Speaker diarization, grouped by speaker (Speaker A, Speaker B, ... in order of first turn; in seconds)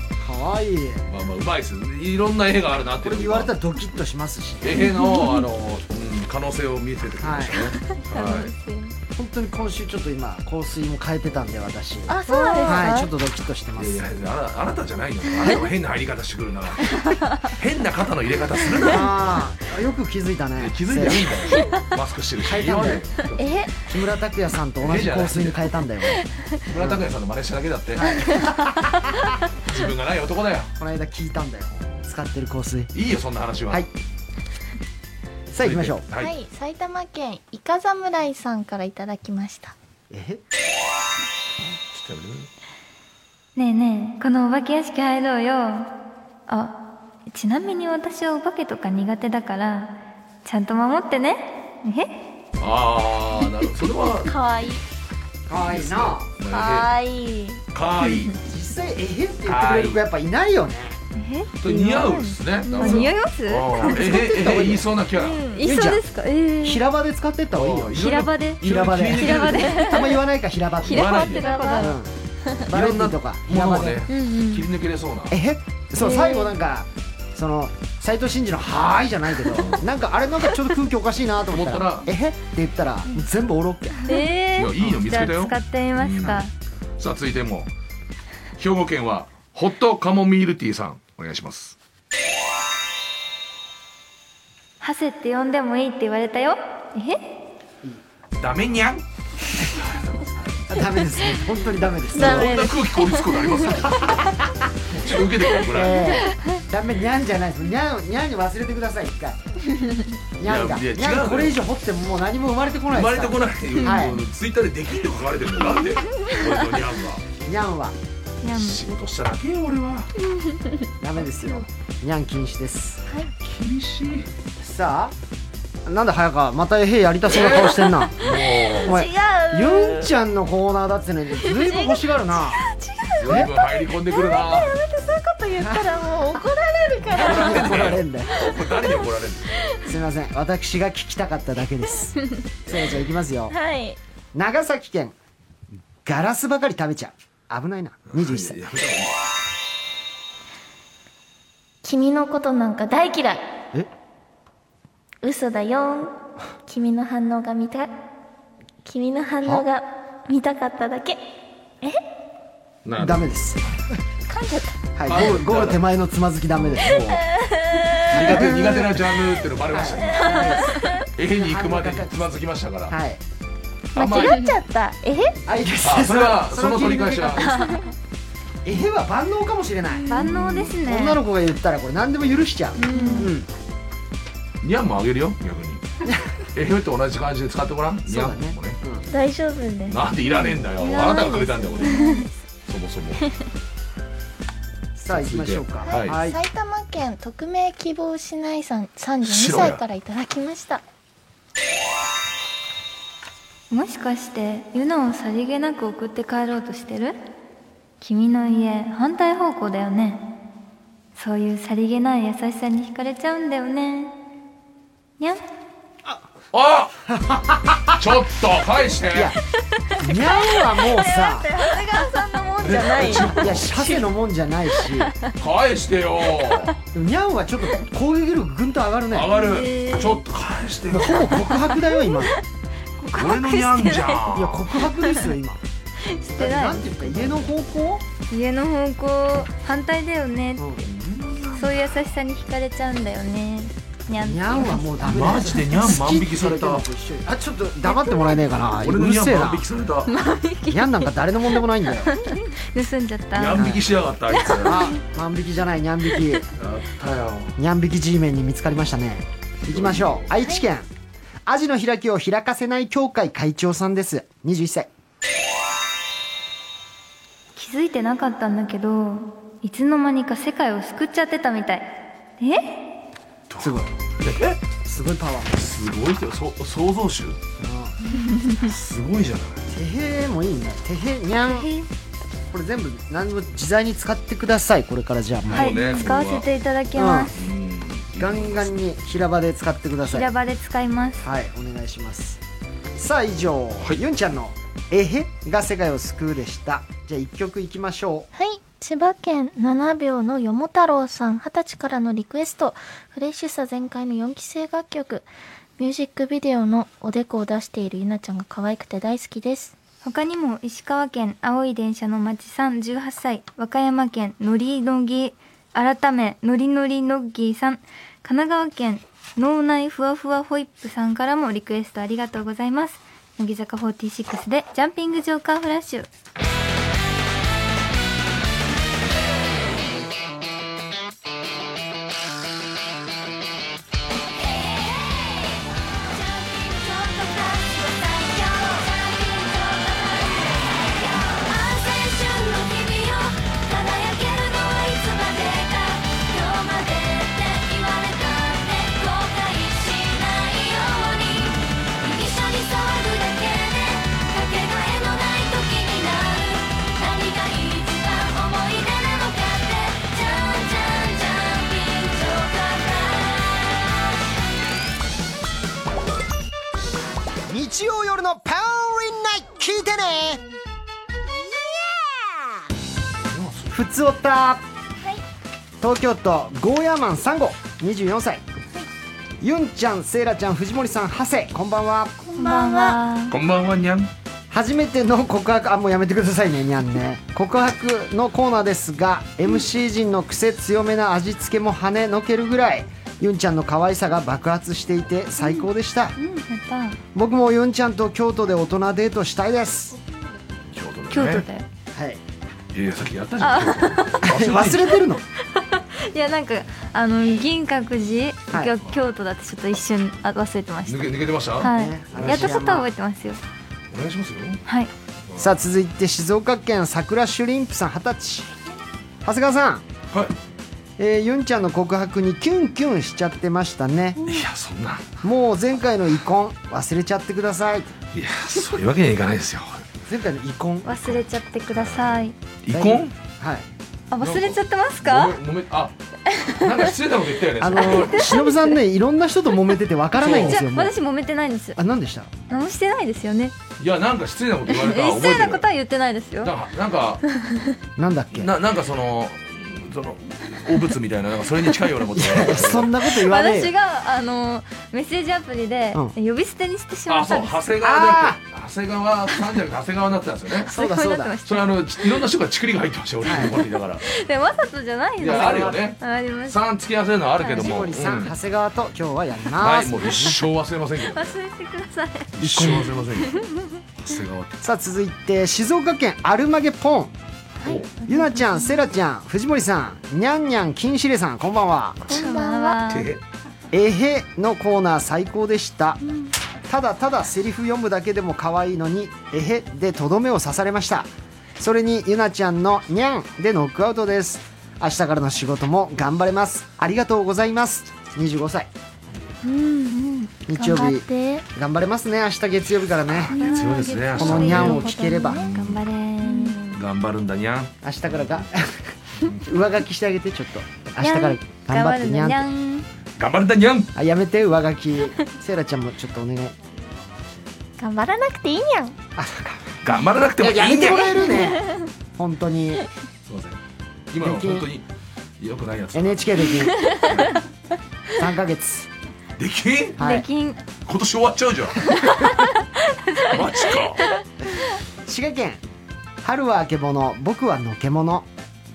Speaker A: 0.2-1.1, 3.0-4.7, 7.2-7.7, 9.2-12.1, 12.6-14.0, 18.8-21.3, 22.4-23.0, 23.9-27.0, 27.9-29.4, 30.8-32.9, 35.5-36.0, 40.1-40.4, 55.5-56.3, 58.4-61.0, 63.8-64.9, 65.6-66.0, 66.6-71.2, 71.7-72.1, 72.7-74.0, 75.3-84.1, 100.7-102.7, 103.7-104.9, 105.6-109.5, 110.4-114.2, 117.4-118.0, 121.0-123.0, 124.6-125.1, 125.8-128.3, 128.8-132.6, 133.2-133.5, 135.6-135.9, 137.1-138.4, 139.8-143.6, 144.3-145.1, 146.0-148.6, 163.0-163.6, 164.9-167.0, 168.1-168.9, 169.7-170.8, 171.4-172.3, 172.9-173.2, 175.4-177.5, 178.6-183.5, 186.0-186.3, 188.1-189.1, 194.9-196.4, 217.1-218.0, 219.1-219.4, 219.9-221.5, 223.2-225.1, 226.9-229.3, 230.9-232.3, 234.3-235.6, 236.4-238.0, 240.6-240.8, 244.1-249.6, 250.7-252.1, 253.5-253.9, 254.6-256.5, 257.6-260.9, 261.4-264.9, 273.6-273.9, 274.8-275.7, 277.6-277.9, 279.7-281.7, 282.5-285.8, 286.9-287.3, 288.1-290.3, 291.2-292.4, 292.9-298.3, 367.4-370.4, 373.7-374.6, 375.8-378.4, 379.4-382.1, 384.5-396.1, 397.1-399.9, 401.9-402.2, 404.2-405.2, 411.6-412.9, 415.4-418.5, 419.2-419.8, 421.0-424.2, 425.2-427.9, 430.1-431.0, 432.7-433.7, 437.6-440.9, 441.8-442.3, 448.0-448.5, 452.1-453.7, 457.8-458.4, 460.7-461.4, 463.2-463.5, 465.3-465.8, 467.5-470.4, 472.4-472.9, 474.6-477.1, 478.1-482.0, 483.7-486.0, 486.7-498.7, 500.5-503.3, 504.1-505.4, 507.8-512.4, 513.9-516.6, 519.1-519.9, 520.4-522.8, 524.2-524.7, 525.9-526.9, 528.1-528.9, 530.0-530.3, 534.4-535.6, 536.2-538.3
Speaker B: 1.1-3.5, 4.6-8.5, 13.8-19.1, 20.6-23.6, 24.8-25.6, 26.7-28.3, 29.6-30.7, 32.9-33.9, 35.6-36.3, 41.7-42.5, 52.6-54.3, 55.5-56.9, 57.7-58.3, 59.4-60.0, 61.6-65.5, 67.5-69.9, 70.8-71.5, 72.7-75.3, 79.5-79.8, 81.5-82.1, 84.5-86.4, 87.0-87.7, 88.5-91.8, 98.4-101.0, 102.1-104.3, 104.9-106.2, 110.5-111.6, 112.9-117.2, 118.4-120.1, 123.4-124.3, 127.3-129.0, 133.1-134.7, 137.1-139.6, 148.1-149.2, 162.8-163.3, 165.0-165.8, 166.5-172.9, 173.9-174.4, 175.8-177.8, 184.6-185.8, 186.5-188.8, 189.9-192.0, 192.7-193.2, 195.1-196.2, 199.2-199.8, 216.5-216.9, 217.9-219.3, 222.6-223.7, 225.4-226.8, 229.1-231.5, 233.1-234.7, 237.0-237.5, 240.8-241.8, 245.0-246.8, 248.8-250.1, 253.3-254.9, 256.5-257.6, 259.7-260.2, 273.5-274.6, 275.6-277.4, 278.5-279.7, 285.4-286.5, 287.3-288.7, 373.2-373.8, 383.3-384.1, 400.7-401.4, 402.7-405.0, 410.9-412.6, 413.9-414.6, 415.3-415.5, 424.2-425.1, 428.1-429.9, 430.9-433.1, 434.2-435.9, 436.5-438.5, 440.2-440.6, 443.8-445.6, 446.4-447.2, 448.3-452.9, 457.1-460.7, 461.4-464.0, 465.2-468.3, 469.6-471.3, 472.4-473.4, 473.9-474.5, 482.9-483.2, 503.1-505.8, 506.7-508.4, 513.2-513.9, 519.8-521.3, 523.2-523.6, 524.1-524.9, 525.4-527.4, 529.4-530.0, 530.8-532.0, 533.2-534.0
Speaker C: 4.8-5.5, 7.8-8.9, 12.1-13.1, 15.4-15.6, 23.4-23.7, 36.2-39.7, 54.1-54.8, 56.5-58.4, 62.6-63.1, 65.2-65.7, 71.1-72.0, 102.1-103.6, 120.3-120.8, 127.3-130.1, 131.4-139.9, 143.5-144.0, 151.8-153.4, 155.2-156.1, 156.7-157.9, 158.8-161.2, 164.3-164.8, 166.8-169.0, 170.1-171.0, 173.9-175.4, 177.5-177.8, 179.9-180.6, 182.9-183.3, 189.1-190.0, 190.8-192.3, 195.8-200.8, 220.6-224.1, 298.3-309.7, 334.5-364.0, 382.2-383.0, 477.6-478.8, 482.0-482.8, 499.4-501.4, 503.4-505.5, 506.2-506.6, 517.8-518.9, 521.0-521.7
Speaker D: 12.3-12.8, 43.5-45.9, 46.5-52.1, 61.1-63.9, 65.5-66.8, 67.9-70.1, 70.9-72.0, 74.1-74.7, 76.0-76.5, 84.0-86.5, 94.8-97.2, 118.4-118.8, 174.2-174.5, 180.1-181.2, 182.8-183.3, 190.8-192.3, 203.7-207.2, 208.0-210.3, 211.2-214.1, 221.5-223.1, 229.3-230.2, 231.7-232.4, 233.0-234.2, 236.0-236.9, 238.3-240.6, 241.5-245.9, 250.1-251.2, 251.9-253.7, 254.3-254.9, 267.6-271.9, 272.4-272.8, 278.1-278.6, 281.4-281.9, 285.5-287.4, 290.1-291.2, 310.0-326.1, 382.4-383.4, 395.4-397.0, 401.1-401.6, 403.4-404.4, 405.5-413.4, 414.6-414.9, 430.8-432.4, 434.1-435.4, 436.3-436.7, 438.0-438.5, 440.2-441.8, 442.5-443.6, 444.7-446.5, 453.1-457.6, 460.7-462.2, 464.0-466.6, 467.4-467.9, 471.1-472.3, 473.2-473.5, 482.1-483.1, 503.3-506.8, 511.0-512.9, 530.0-530.6, 532.0-532.4, 533.0-533.6